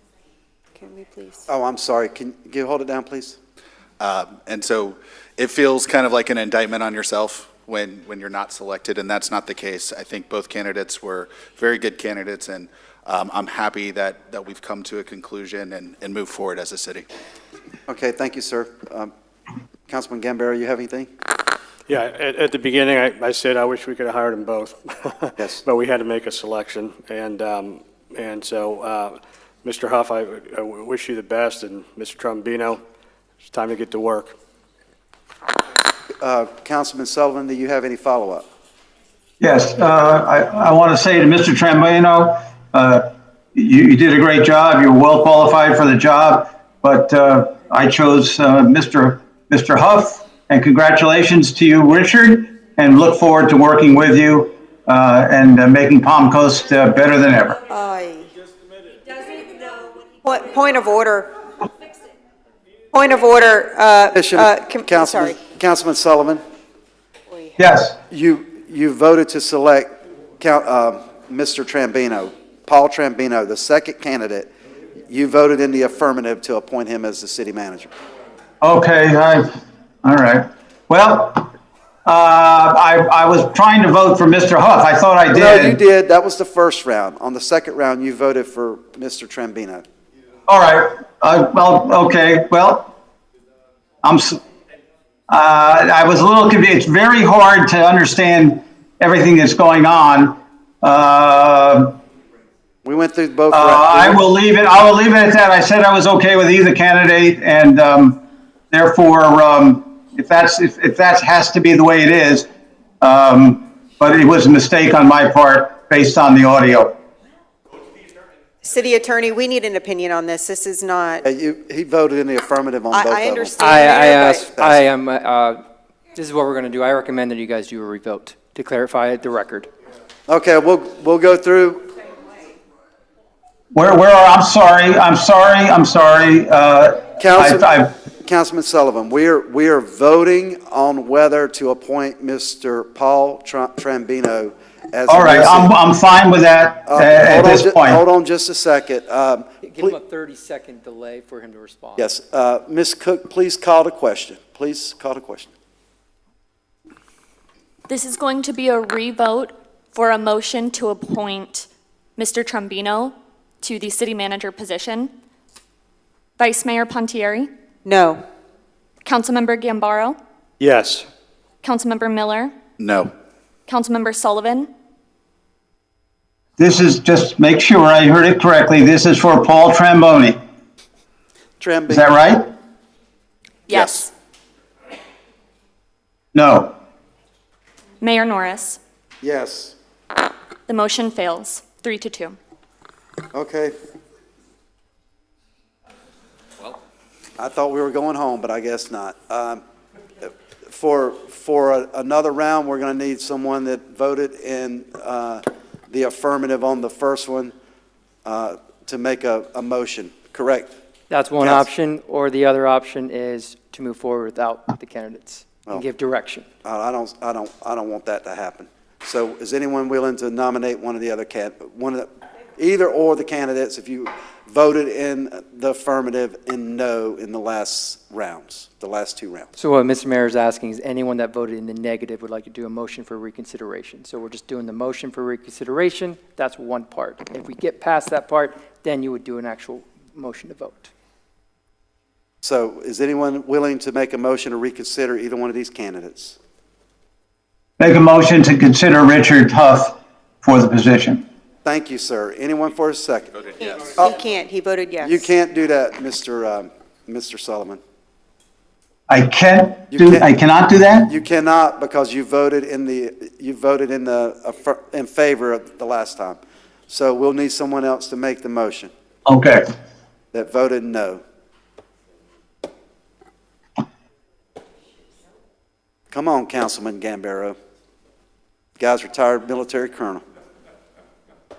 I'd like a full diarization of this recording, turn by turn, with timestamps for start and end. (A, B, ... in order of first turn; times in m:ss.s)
0:00.8-0:01.4 A
0:01.5-0:03.4 B
0:04.0-0:17.0 C
0:17.9-0:19.1 B
0:19.9-0:21.1 B
0:21.9-0:32.8 D
0:33.4-0:34.3 D
0:36.2-0:38.4 B
0:39.4-0:57.6 E
0:57.6-0:58.3 A
0:59.2-1:01.3 A
1:02.9-1:05.4 A
1:04.1-1:06.4 B
1:07.3-1:07.6 A
1:07.6-1:08.0 E
1:08.1-1:14.5 B
1:15.1-1:17.9 B
1:18.6-1:21.5 E
1:22.0-1:25.8 E
1:25.3-1:29.8 B
1:30.5-1:32.9 E
1:34.0-1:34.4 E
1:35.3-1:42.0 E
1:42.8-1:44.2 B
1:43.5-1:52.5 E
1:53.0-1:57.0 E
1:58.6-2:01.2 A
2:01.2-2:03.6 B
2:02.9-2:04.5 A
2:03.6-2:05.6 F
2:04.6-2:04.8 B
2:06.1-2:09.7 F
2:10.3-2:11.8 B
2:13.7-2:17.9 E
2:17.2-2:25.7 B
2:25.1-2:28.0 E
2:26.9-2:30.0 B
2:29.6-2:32.1 F
2:32.0-2:35.5 B
2:37.9-2:45.1 G
2:46.4-2:47.5 G
2:47.8-2:48.2 A
2:49.0-2:50.2 G
2:50.6-2:51.1 D
2:51.6-2:52.5 G
2:52.8-2:53.1 C
2:53.7-2:54.7 G
2:56.6-3:00.4 E
3:01.6-3:02.1 B
3:01.9-3:02.4 E
3:03.7-3:04.1 G
3:03.7-3:04.0 C
3:06.3-3:06.7 E
3:08.0-3:08.8 G
3:09.2-3:09.7 B
3:10.7-3:12.4 G
3:13.3-3:13.7 B
3:17.4-3:19.6 B
3:20.2-3:27.5 B
3:28.2-3:30.7 B
3:31.1-3:36.5 F
3:31.4-3:31.6 B
3:36.6-3:49.5 B
3:49.6-4:00.9 F
4:02.4-4:06.4 B
4:07.8-4:11.2 E
4:11.6-4:14.1 B
4:13.6-4:15.3 A
4:15.0-4:17.8 B
4:19.1-4:21.1 E
4:19.9-4:20.3 B
4:21.1-4:28.9 B
4:29.2-4:29.6 E
4:30.3-4:31.2 B
4:36.1-4:37.6 B
4:38.8-4:40.2 B